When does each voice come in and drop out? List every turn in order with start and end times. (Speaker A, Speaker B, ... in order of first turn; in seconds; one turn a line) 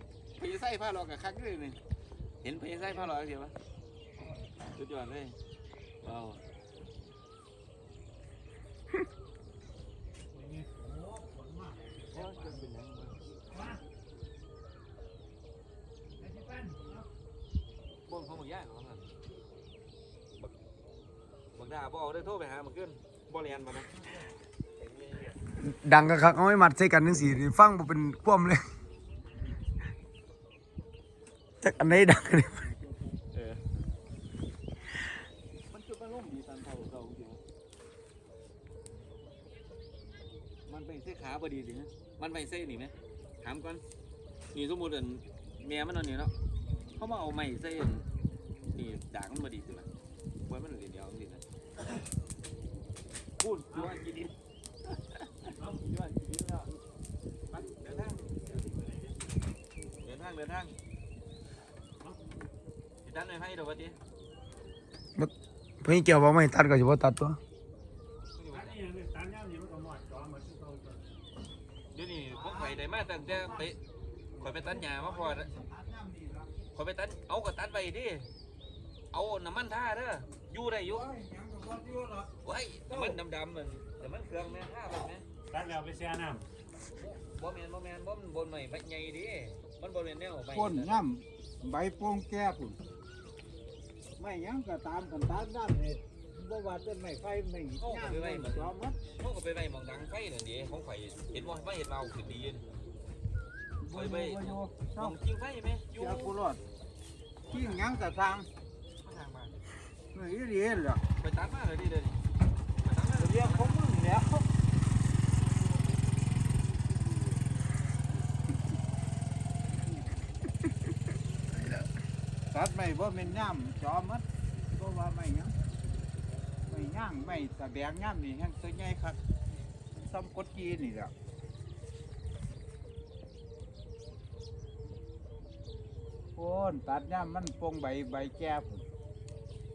Speaker A: 0.3-1.8
Speaker A: 2.4-3.5
Speaker A: 4.7-5.4
Speaker A: 6.0-6.4
Speaker B: 10.3-12.6
Speaker A: 12.1-13.2
Speaker B: 13.5-13.8
Speaker B: 16.2-17.1
Speaker A: 18.1-19.1
Speaker A: 21.6-24.2
Speaker A: 24.8-25.4
Speaker C: 25.6-28.6
Speaker C: 31.6-32.7
Speaker A: 33.3-33.6
Speaker A: 35.7-37.4
Speaker A: 40.7-43.8
Speaker A: 44.5-46.3
Speaker A: 47.0-48.0
Speaker A: 48.7-49.9
Speaker A: 50.5-51.4
Speaker A: 53.4-54.3
Speaker A: 54.9-55.3
Speaker B: 55.6-55.8
Speaker A: 55.8-56.7
Speaker A: 57.5-58.4
Speaker B: 58.5-59.2
Speaker A: 60.0-60.8
Speaker A: 63.0-64.0
Speaker C: 65.2-67.4
Speaker A: 68.3-68.8
Speaker B: 68.5-71.0
Speaker A: 71.9-73.8
Speaker D: 72.3-73.7
Speaker D: 74.3-76.5
Speaker A: 74.4-75.5
Speaker A: 76.7-78.3
Speaker A: 79.1-81.1
Speaker D: 80.8-82.3
Speaker A: 82.4-85.2
Speaker D: 82.9-83.2
Speaker B: 85.5-86.5
Speaker A: 86.9-91.0
Speaker D: 90.5-92.8
Speaker D: 94.2-99.0
Speaker A: 97.8-102.7
Speaker D: 103.8-105.2
Speaker A: 103.9-106.3
Speaker D: 105.9-106.6
Speaker A: 107.5-108.1
Speaker D: 107.5-108.5
Speaker A: 109.0-109.6
Speaker D: 110.1-111.0
Speaker A: 111.2-112.2
Speaker A: 112.8-113.8
Speaker D: 113.2-114.5
Speaker A: 117.0-117.4
Speaker D: 122.5-125.5
Speaker D: 126.7-129.2
Speaker D: 130.0-131.1
Speaker D: 136.4-138.8